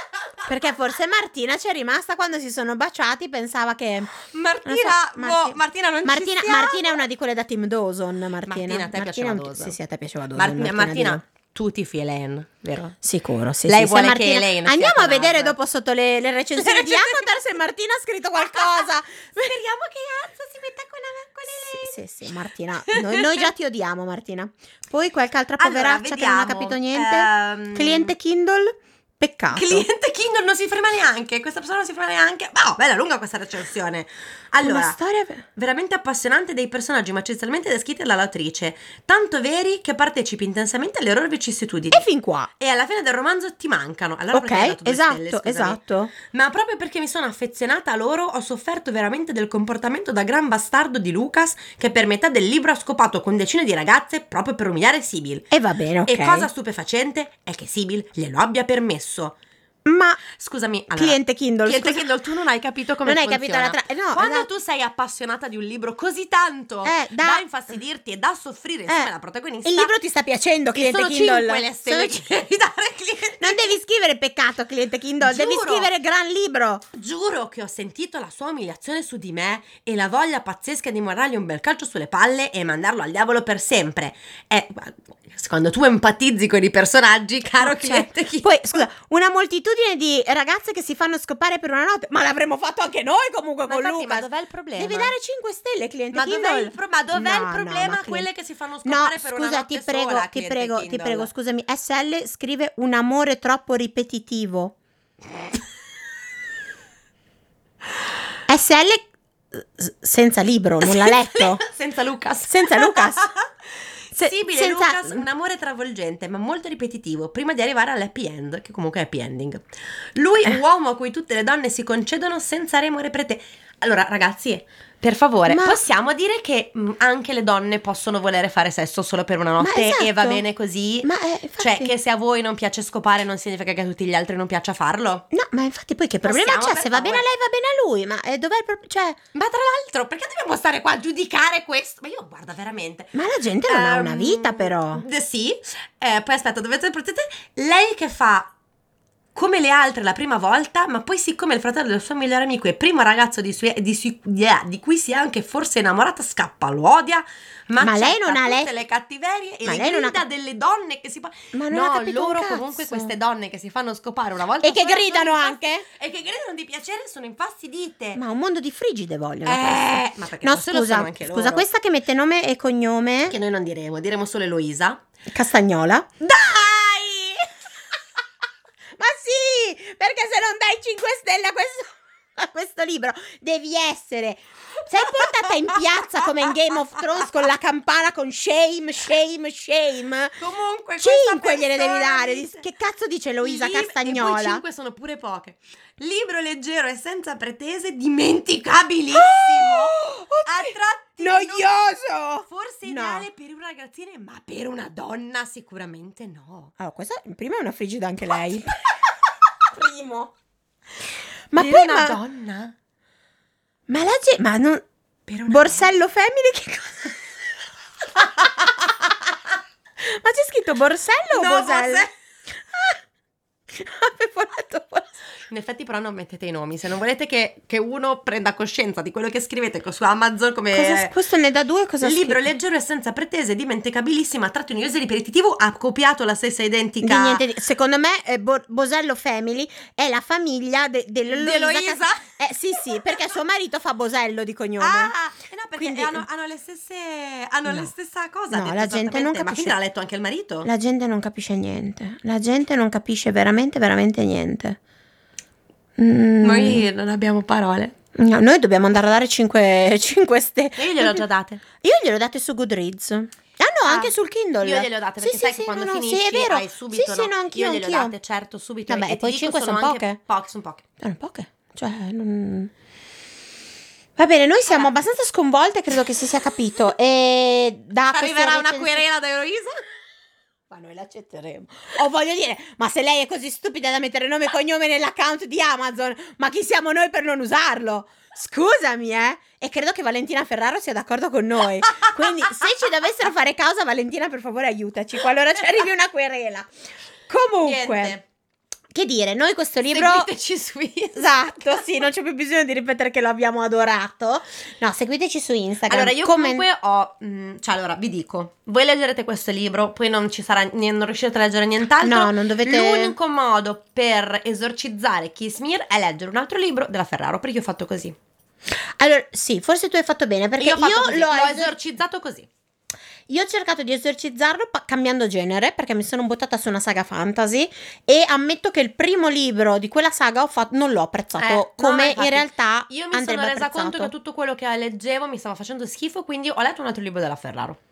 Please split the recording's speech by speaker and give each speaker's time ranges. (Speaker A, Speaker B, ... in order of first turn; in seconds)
Speaker A: 0.5-11.2, 13.0-19.3, 21.5-29.9, 34.6-35.5, 41.9-42.5, 44.3-46.1, 55.5-56.5, 59.9-60.2, 60.9-62.1, 63.0-64.5, 66.8-67.4, 69.6-72.2, 73.4-76.8, 87.6-98.3, 98.8-104.8, 108.5-111.6, 112.5-113.3, 114.1-115.3, 125.5-125.8, 129.6-130.4, 131.0-131.9, 135.3-139.2, 143.1-145.0, 157.8-158.7, 159.6-160.2, 161.5-163.1, 164.6-165.8, 168.1-173.4, 175.3-176.1, 179.0-190.4, 191.0-194.6, 199.1-203.3, 206.8-208.9, 209.7-210.3, 211.5-212.2, 213.9-214.8, 215.5-217.2, 220.0-222.1, 222.7-223.0, 223.7-225.2, 230.7-232.4, 237.0-245.1, 245.8-246.2, 248.5-249.8, 250.6-254.8, 256.0-256.9, 258.1-261.2, 261.8-268.1, 268.9-270.2, 271.0-272.7, 274.2-279.0, 280.7-296.7, 297.3-298.1, 298.9-300.3, 301.1-306.6, 312.0-313.1, 319.0-321.8, 323.3-334.1
Speaker B: 4.1-7.0, 8.4-9.8, 10.3-13.0, 13.7-15.6, 16.5-17.4, 18.4-22.0, 22.9-23.5, 25.6-28.1, 29.5-35.0, 35.5-42.0, 42.6-55.5, 56.0-59.4, 60.3-69.9, 70.7-73.8, 75.2-75.9, 76.9-88.8, 93.7-95.1, 96.1-101.3, 110.8-113.5, 114.1-135.2, 136.2-137.2, 139.3-148.5, 149.3-168.2, 169.4-171.7, 173.3-175.0, 176.2-177.5, 185.0-186.5, 190.4-192.6, 193.4-201.7, 202.5-206.7, 211.6-212.7, 215.3-215.9, 218.4-218.9, 221.3-222.1, 225.5-231.1, 232.0-237.4, 241.2-242.2, 244.8-250.7, 256.4-257.9, 260.8-261.6, 263.8-270.8, 278.1-279.8, 297.6-298.2, 299.9-301.7, 305.9-318.1, 320.6-322.5, 331.4-337.8